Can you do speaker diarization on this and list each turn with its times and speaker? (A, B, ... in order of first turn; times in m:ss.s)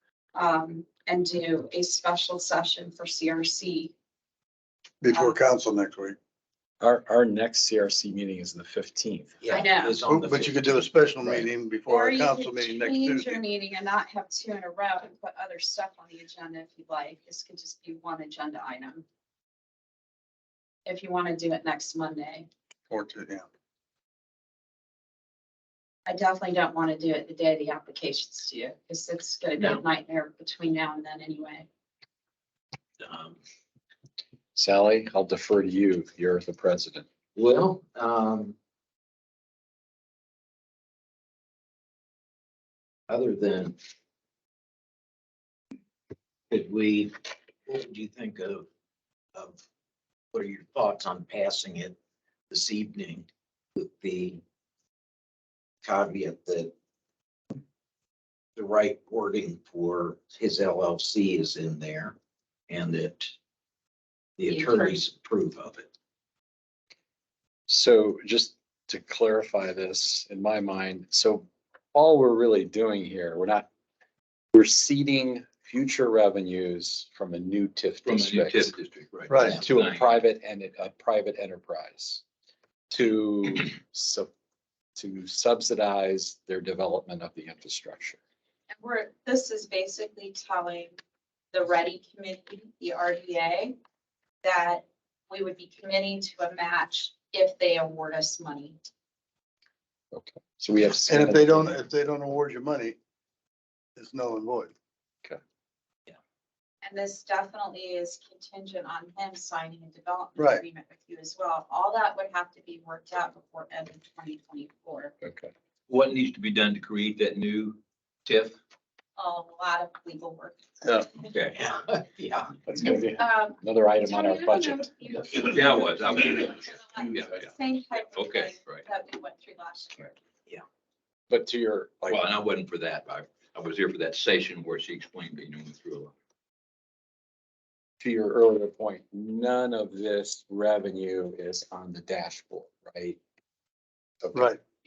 0:00.4-0:03.9 A
0:05.0-0:06.2 B
0:06.8-0:09.4 C
0:09.4-0:10.9 D
0:09.5-0:10.0 A
0:10.0-0:13.4 B
0:11.9-0:19.0 A
0:20.9-0:22.5 A
0:22.9-0:23.5 B
0:26.1-0:31.7 A
0:33.0-0:33.4 D
0:34.6-0:37.1 C
0:37.4-0:38.6 D
0:43.1-0:43.8 D
0:46.5-0:48.7 D
0:49.3-0:49.6 D
0:50.3-0:52.0 D
0:52.5-0:54.4 D
0:55.8-0:56.7 D
0:58.6-1:02.2 D
1:02.7-1:03.3 D
1:04.4-1:05.9 D
1:04.5-1:05.0 A
1:07.7-1:13.7 C
1:14.5-1:18.7 C
1:18.0-1:20.1 E
1:19.3-1:19.6 B
1:19.4-1:22.2 C
1:22.9-1:24.3 C
1:25.0-1:28.2 C
1:28.7-1:31.0 A
1:31.5-1:33.8 A
1:34.4-1:38.8 A
1:40.1-1:41.8 C
1:41.1-1:43.0 B
1:44.0-1:44.7 B
1:46.8-1:55.1 A
1:50.4-1:50.6 B
1:55.2-1:55.5 C
1:55.9-1:58.6 E
1:59.2-2:00.6 A
2:01.3-2:01.6 E
2:01.6-2:02.7 D
2:02.7-2:04.9 C
2:02.9-2:10.1 A
2:05.4-2:08.9 E
2:11.3-2:12.2 C
2:12.1-2:16.2 E
2:18.0-2:23.2 C
2:24.2-2:24.5 C
2:24.3-2:24.6 B